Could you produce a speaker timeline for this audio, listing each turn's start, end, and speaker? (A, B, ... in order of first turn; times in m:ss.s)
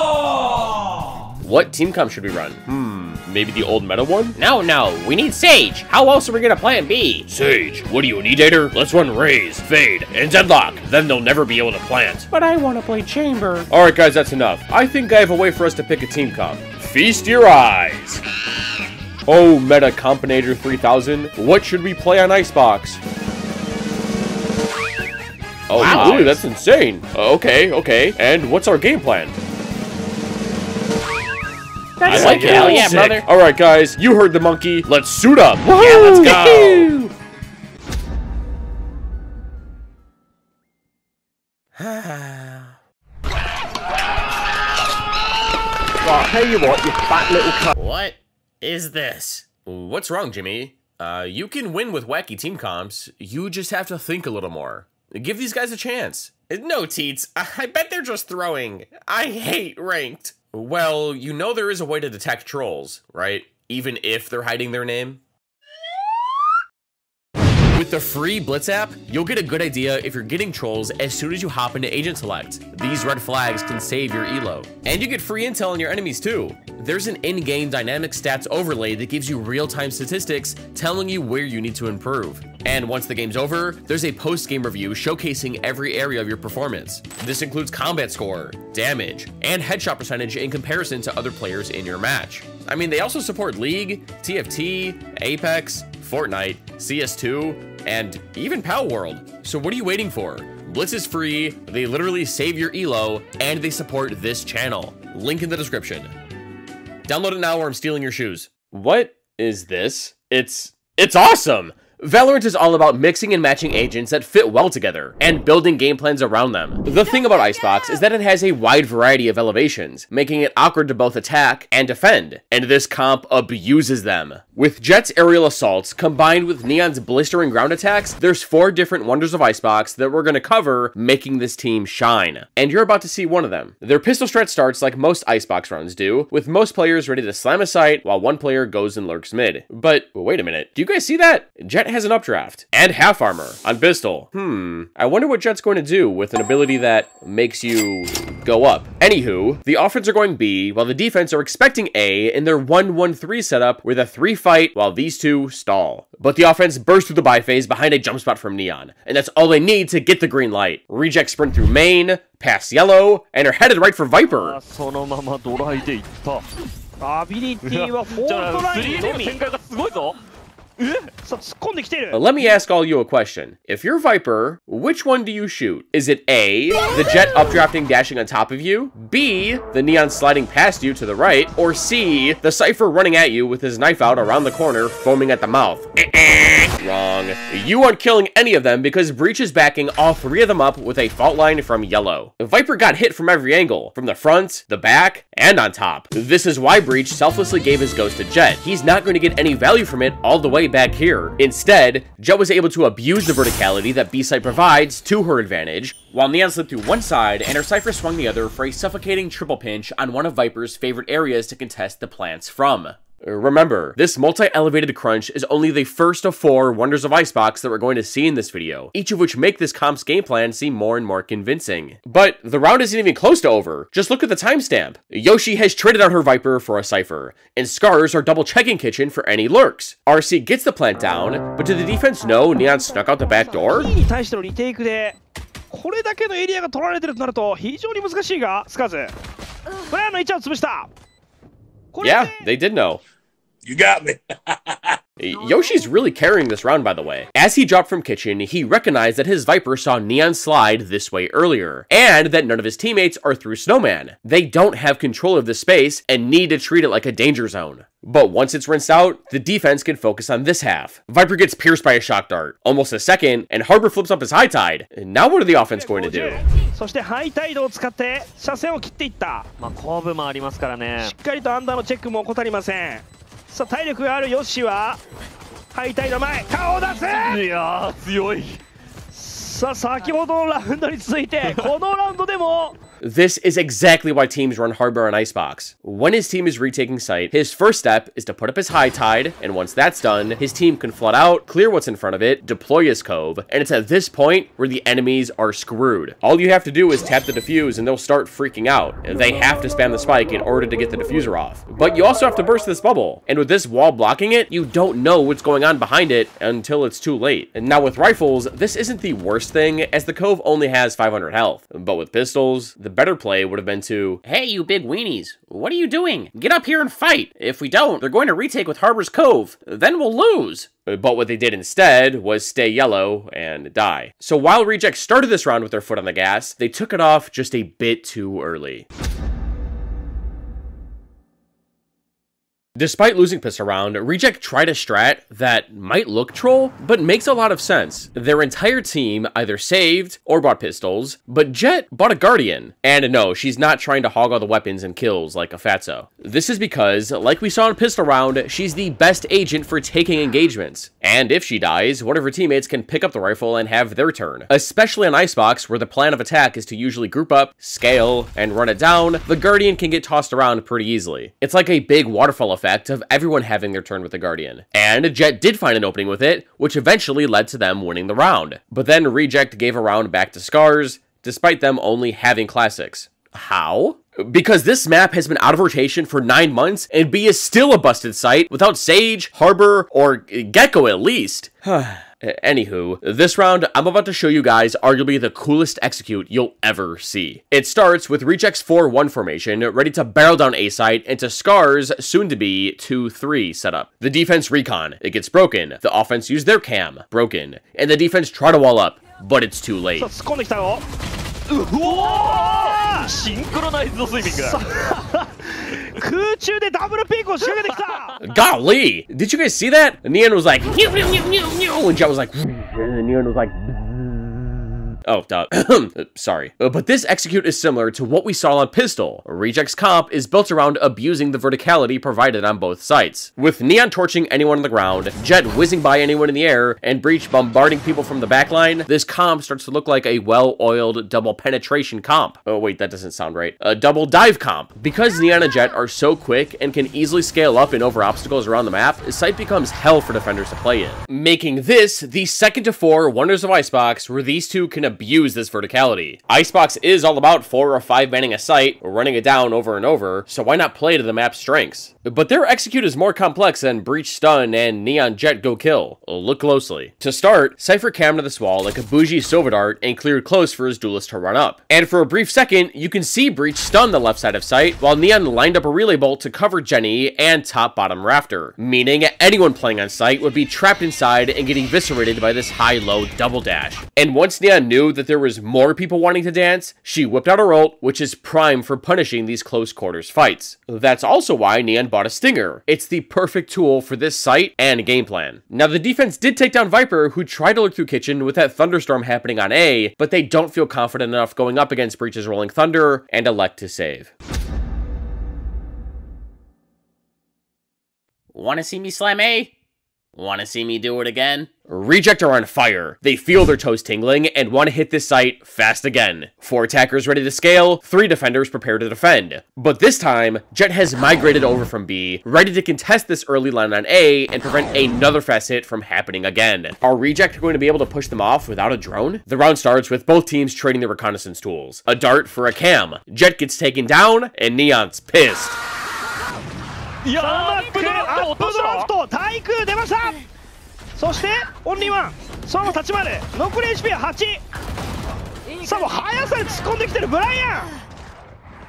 0:01.4-0:04.4 A
0:04.4-0:07.3 B
0:07.3-0:12.3 A
0:12.3-0:13.7 B
0:13.7-0:18.2 A
0:19.2-0:23.0 A
0:25.7-0:29.4 A
0:25.7-0:26.4 B
0:32.0-0:33.3 B
0:32.0-0:37.0 A
0:35.6-0:37.1 B
0:41.8-0:42.7 A
0:46.1-0:48.2 B
0:47.5-0:48.0 A
0:48.6-1:05.2 A
1:07.7-1:46.1 A
1:47.0-2:44.6 A
2:44.2-2:46.5 C
2:47.0-2:49.4 D
2:47.6-2:50.2 C
2:50.8-2:51.1 C
2:51.2-2:52.2 D
2:52.1-3:53.9 A
3:53.6-3:55.2 D
3:55.7-3:59.1 D
3:59.9-4:00.9 D
4:01.9-4:02.5 D
4:02.0-4:03.0 A
4:03.7-4:04.0 A
4:05.2-4:26.4 A
4:25.6-4:29.5 D
4:29.6-4:31.1 C
4:31.0-4:35.0 D
4:35.7-4:37.4 D
4:37.1-4:38.6 C
4:39.1-4:42.8 D
4:41.4-4:41.7 C
4:43.0-5:14.2 A
5:14.2-5:20.7 B
5:20.8-5:28.8 A
5:32.8-6:40.1 A
6:40.0-6:40.8 D
6:41.5-6:44.6 C
6:41.7-6:43.1 D
6:44.2-6:48.1 D
6:47.7-6:48.2 C
6:48.2-8:14.1 A
8:18.3-8:19.5 B
8:20.2-8:21.5 B
8:21.7-8:45.6 A
8:47.0-8:48.9 C
8:47.1-8:50.2 D
8:51.0-8:54.4 D
8:55.6-8:57.7 D